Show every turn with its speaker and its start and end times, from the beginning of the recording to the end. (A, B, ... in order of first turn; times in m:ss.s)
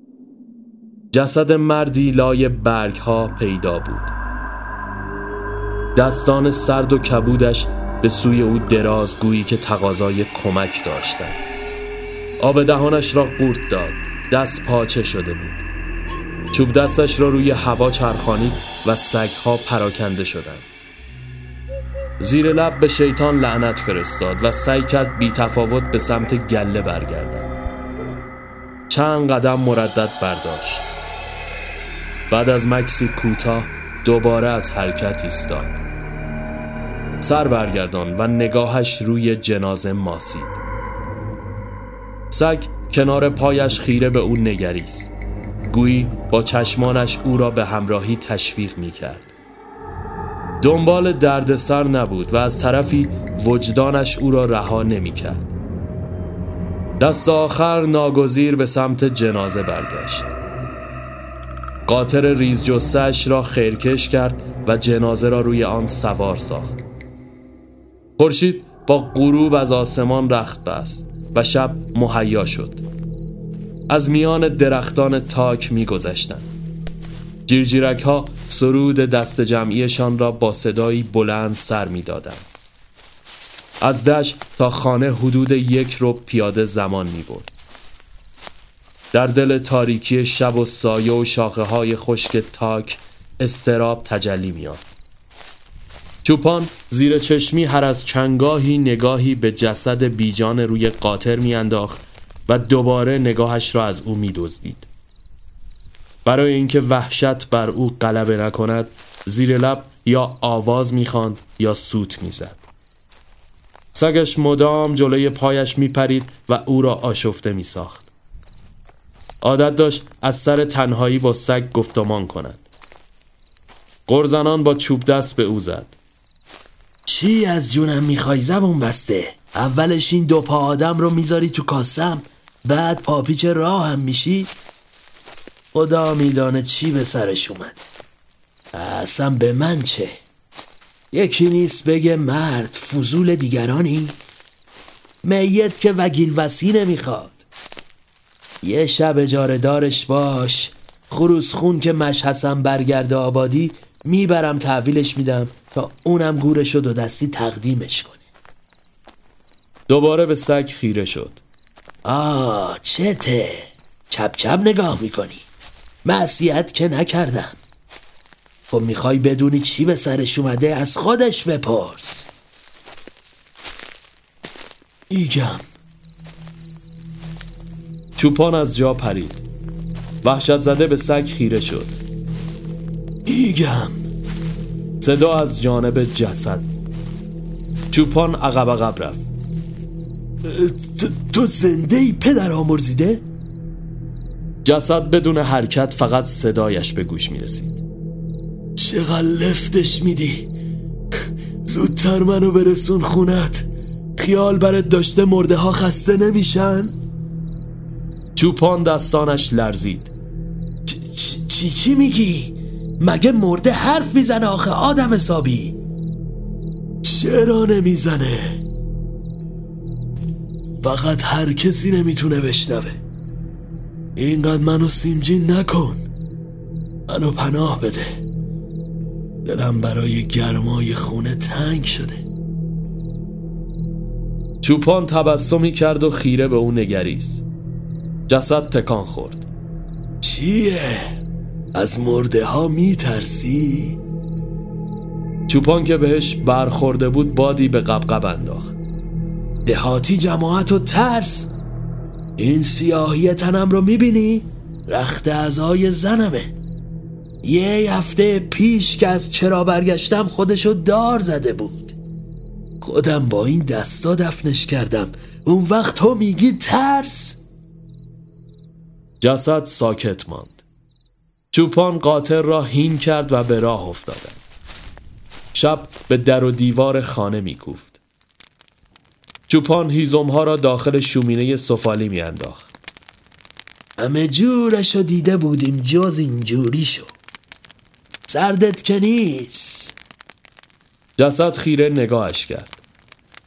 0:01.1-0:04.1 A
0:06.0-0:11.4 A
0:12.4-0:15.6 A
0:16.5-0:20.7 A
0:22.2-0:27.5 A
0:28.9-0:30.9 A
0:32.3-0:35.8 A
0:37.2-0:40.6 A
0:42.3-0:45.1 A
0:45.7-0:49.3 A
0:50.6-0:55.5 A
0:57.0-1:00.3 A
1:01.9-1:06.8 A
1:08.2-1:12.8 A
1:13.9-1:16.5 A
1:17.5-1:22.5 A
1:23.8-1:27.5 A
1:29.1-1:34.9 A
1:36.2-1:44.9 A
1:46.2-1:52.6 A
1:53.9-1:58.1 A
1:59.4-2:02.6 A
2:04.1-2:06.0 A
2:07.1-2:14.5 B
2:15.7-2:17.8 B
2:18.7-2:20.2 B
2:21.1-2:24.2 B
2:25.2-2:27.4 B
2:28.6-2:38.2 B
2:39.9-2:41.4 A
2:42.0-2:45.5 B
2:46.0-2:47.6 B
2:48.7-2:52.3 B
2:55.1-2:55.6 B
2:58.2-2:59.4 A
3:00.2-3:02.0 A
3:03.3-3:04.0 B
3:05.0-3:06.7 A
3:07.9-3:09.2 A
3:10.4-3:13.2 B
3:14.6-3:17.8 A
3:18.8-3:20.5 B
3:21.6-3:27.0 B
3:28.4-3:30.1 A
3:30.9-3:35.8 B
3:37.0-3:38.6 B
3:40.8-3:43.0 B
3:44.2-3:46.0 B
3:47.1-3:48.2 B
3:49.4-3:52.2 B
3:54.6-3:57.4 A
3:58.3-3:59.5 A
4:00.2-4:01.1 B
4:01.8-4:04.0 B
4:05.5-4:08.8 A
4:09.7-4:11.5 B
4:12.4-4:16.5 B
4:17.4-4:22.0 B
4:22.8-4:27.4 B
4:29.2-4:30.6 A
4:31.5-4:34.4 A
4:35.5-4:38.0 A
4:39.5-4:42.7 A
4:44.0-4:47.1 B
4:48.3-4:49.9 B
4:51.2-4:52.8 A